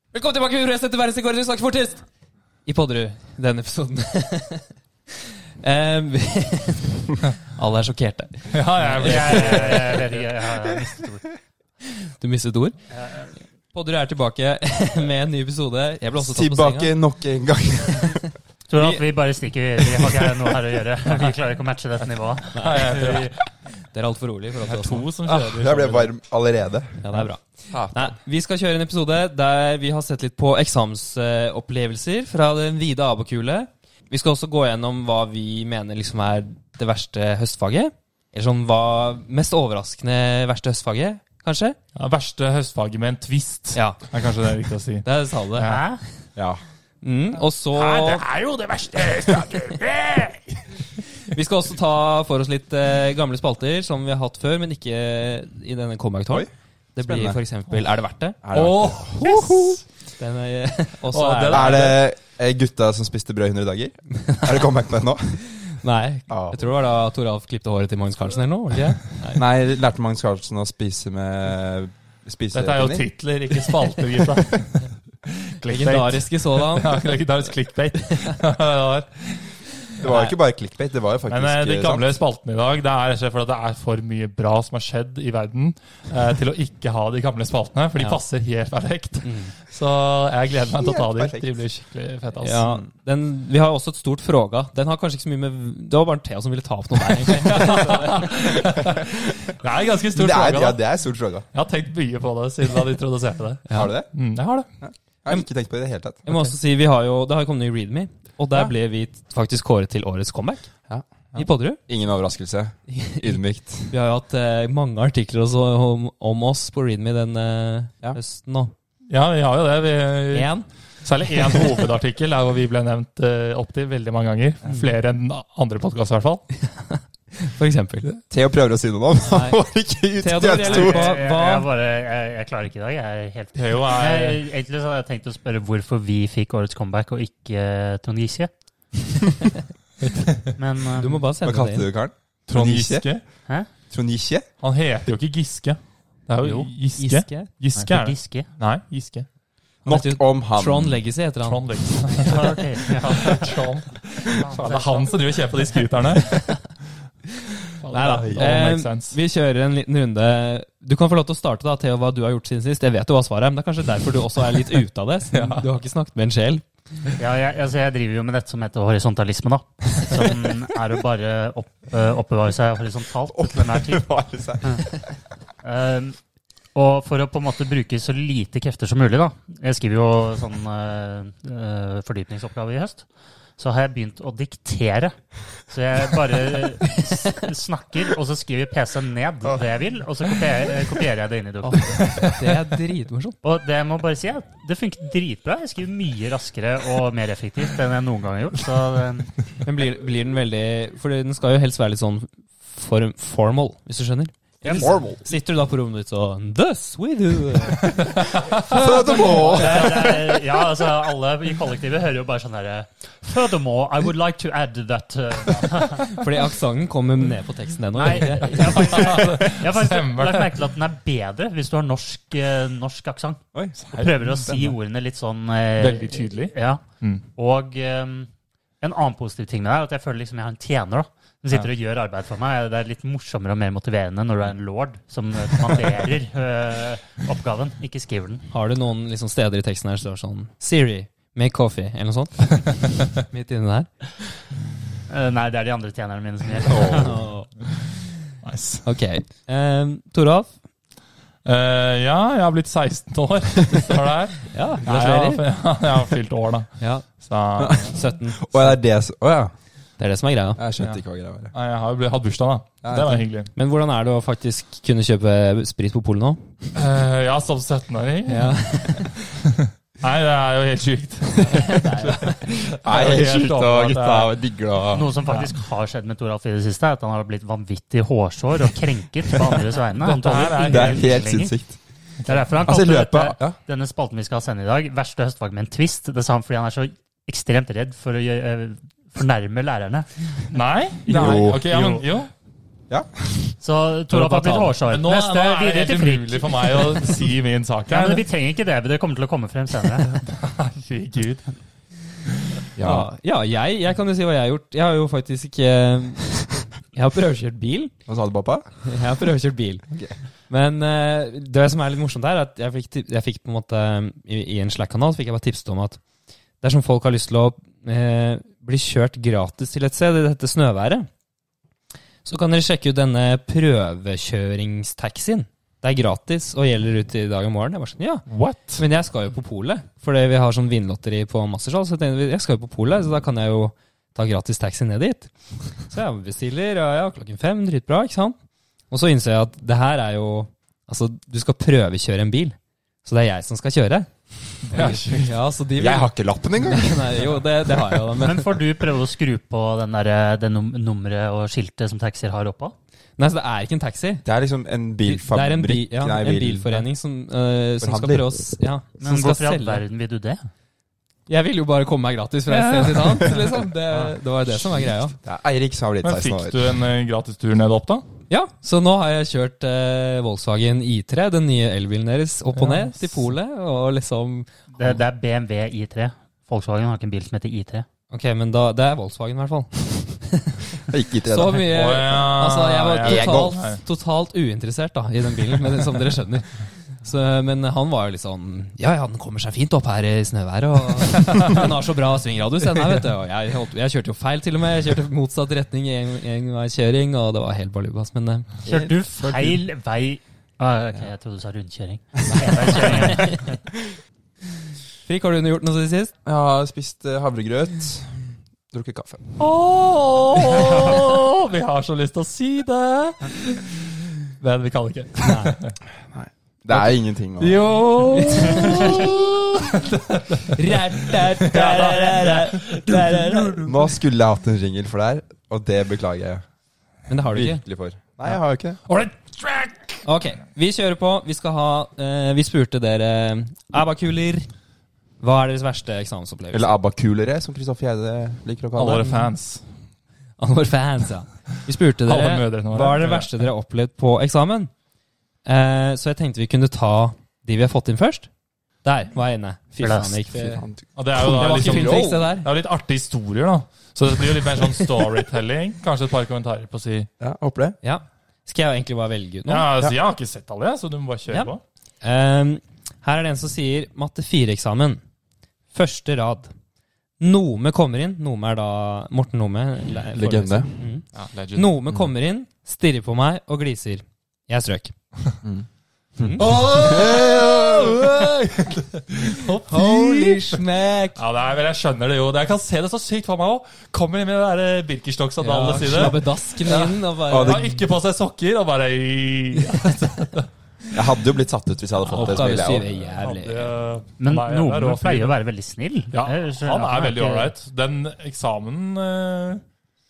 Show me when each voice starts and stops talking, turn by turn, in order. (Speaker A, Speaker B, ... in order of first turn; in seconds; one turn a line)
Speaker A: 0.1-2.0
Speaker A: 2.6-4.7
Speaker A: 5.6-10.2
Speaker B: 8.5-10.1
Speaker C: 9.0-11.3
Speaker A: 12.1-12.8
Speaker C: 12.9-13.3
Speaker A: 13.7-16.9
Speaker D: 16.2-18.3
Speaker C: 18.7-23.2
Speaker A: 22.5-23.3
Speaker B: 22.6-23.4
Speaker A: 23.9-25.1
Speaker B: 24.6-26.1
Speaker D: 25.2-27.2
Speaker A: 27.0-41.8
Speaker D: 27.7-28.1
Speaker B: 42.0-45.8
Speaker A: 43.7-44.0
Speaker A: 45.0-45.8
Speaker C: 45.6-46.0
Speaker A: 47.0-48.3
Speaker B: 47.8-50.6
Speaker A: 51.2-58.4
Speaker D: 57.0-57.4
Speaker D: 58.4-59.8
Speaker B: 58.5-59.8
Speaker A: 60.2-62.0
Speaker B: 61.1-62.0
Speaker D: 61.5-65.4
Speaker A: 65.6-69.4
Speaker D: 66.3-66.6
Speaker B: 68.7-69.0
Speaker D: 69.3-73.1
Speaker B: 72.5-79.6
Speaker A: 75.7-77.0
Speaker D: 80.0-82.1
Speaker A: 80.0-80.3
Speaker B: 81.3-92.7
Speaker A: 88.0-88.2
Speaker A: 89.2-89.5
Speaker D: 90.7-91.5
Speaker A: 92.4-98.3
Speaker B: 97.2-100.8
Speaker D: 100.1-101.5
Speaker B: 101.5-104.7
Speaker D: 103.7-104.1
Speaker D: 104.8-106.2
Speaker A: 106.2-110.7
Speaker A: 111.3-111.8
Speaker D: 111.9-113.9
Speaker A: 112.9-118.7
Speaker B: 119.1-120.5
Speaker A: 120.3-120.7
Speaker B: 121.0-126.5
Speaker A: 126.6-128.1
Speaker D: 128.3-131.2
Speaker A: 129.2-129.6
Speaker A: 130.2-131.7
Speaker C: 130.6-138.5
Speaker B: 133.6-134.4
Speaker B: 140.0-140.5
Speaker C: 140.6-141.2
Speaker A: 141.0-141.9
Speaker D: 141.4-143.2
Speaker B: 142.5-143.2
Speaker D: 143.9-144.5
Speaker B: 144.6-149.3
Speaker A: 146.5-147.5
Speaker C: 147.8-148.5
Speaker D: 149.8-151.0
Speaker A: 149.8-151.7
Speaker B: 151.4-156.7
Speaker C: 152.2-153.6
Speaker C: 154.3-155.1
Speaker B: 157.8-159.2
Speaker A: 157.9-166.7
Speaker D: 158.2-158.5
Speaker B: 165.3-165.7
Speaker C: 167.2-174.1
Speaker D: 173.3-175.0
Speaker C: 175.6-176.2
Speaker C: 176.8-183.1
Speaker C: 183.6-192.1
Speaker A: 191.6-193.4
Speaker B: 192.0-192.6
Speaker C: 193.4-199.3
Speaker A: 199.6-210.2
Speaker C: 204.6-204.9
Speaker D: 204.7-205.2
Speaker B: 207.9-208.6
Speaker D: 208.1-210.4
Speaker C: 209.5-216.2
Speaker A: 216.1-218.7
Speaker C: 217.9-226.8
Speaker B: 218.5-220.5
Speaker D: 223.5-224.7
Speaker B: 223.8-224.2
Speaker B: 225.8-227.2
Speaker C: 227.4-228.3
Speaker C: 228.8-238.4
Speaker A: 238.5-243.9
Speaker C: 245.1-247.2
Speaker D: 246.7-247.2
Speaker A: 246.9-247.5
Speaker B: 248.4-248.8
Speaker A: 248.8-250.5
Speaker B: 251.4-258.0
Speaker A: 254.5-255.4
Speaker A: 256.8-257.1
Speaker D: 257.6-259.5
Speaker A: 257.7-258.8
Speaker A: 260.0-260.6
Speaker D: 260.6-261.5
Speaker B: 261.5-263.5
Speaker D: 262.8-263.2
Speaker A: 263.5-266.4
Speaker B: 266.8-268.6
Speaker A: 268.2-269.2
Speaker B: 269.2-274.3
Speaker A: 271.5-272.5
Speaker D: 272.8-275.2
Speaker C: 274.9-281.5
Speaker B: 280.0-281.1
Speaker D: 280.6-281.8
Speaker C: 282.2-292.0
Speaker D: 282.6-283.6
Speaker B: 290.5-292.3
Speaker D: 291.1-291.7
Speaker D: 292.9-293.5
Speaker C: 293.6-297.2
Speaker B: 294.3-298.2
Speaker C: 297.9-300.1
Speaker B: 300.1-301.5
Speaker D: 302.8-303.1
Speaker A: 302.8-307.9
Speaker D: 308.1-308.7
Speaker A: 308.8-309.8
Speaker D: 309.9-310.1
Speaker A: 310.5-316.0
Speaker A: 316.6-321.1
Speaker A: 322.2-328.2
Speaker B: 328.3-328.8
Speaker A: 328.8-338.4
Speaker A: 338.9-344.1
Speaker B: 344.6-345.3
Speaker A: 344.7-348.5
Speaker D: 345.8-347.8
Speaker C: 348.2-352.7
Speaker A: 353.2-354.2
Speaker D: 354.2-356.9
Speaker A: 355.0-359.8
Speaker D: 357.8-358.3
Speaker C: 359.0-360.4
Speaker A: 361.3-365.1
Speaker B: 362.8-363.2
Speaker D: 364.5-366.6
Speaker B: 366.0-368.0
Speaker A: 368.3-374.5
Speaker B: 372.6-373.3
Speaker C: 374.8-377.9
Speaker A: 378.1-380.6
Speaker D: 380.9-381.7
Speaker A: 381.2-398.5
Speaker B: 381.6-383.8
Speaker D: 383.0-383.6
Speaker D: 398.6-398.9
Speaker C: 398.7-403.6
Speaker D: 402.3-403.1
Speaker A: 403.0-403.4
Speaker A: 405.1-406.1
Speaker D: 406.2-409.2
Speaker B: 409.4-415.8
Speaker A: 415.2-415.6
Speaker D: 416.1-417.6
Speaker A: 417.4-419.5
Speaker B: 417.6-423.8
Speaker A: 420.4-423.8
Speaker D: 423.6-426.4
Speaker A: 427.1-427.6
Speaker D: 427.3-428.8
Speaker B: 428.8-430.0
Speaker A: 430.0-434.5
Speaker A: 435.2-436.8
Speaker D: 436.5-439.1
Speaker B: 438.8-439.6
Speaker A: 439.0-439.3
Speaker A: 440.4-444.7
Speaker B: 442.0-443.3
Speaker A: 445.4-448.3
Speaker A: 448.8-452.5
Speaker C: 449.8-450.1
Speaker D: 450.3-452.3
Speaker B: 450.9-457.1
Speaker D: 457.2-457.8
Speaker A: 457.8-459.7
Speaker B: 459.5-461.6
Speaker A: 461.3-465.0
Speaker A: 465.7-466.5
Speaker A: 467.2-474.9
Speaker D: 470.1-470.7
Speaker B: 471.1-471.7
Speaker D: 476.2-478.1
Speaker A: 476.2-476.5
Speaker B: 476.4-480.6
Speaker A: 479.4-481.2
Speaker B: 481.1-490.5
Speaker A: 485.4-487.9
Speaker D: 487.3-487.6
Speaker D: 490.9-492.9
Speaker B: 492.1-495.4
Speaker A: 492.1-493.7
Speaker C: 494.2-497.5
Speaker B: 496.1-499.6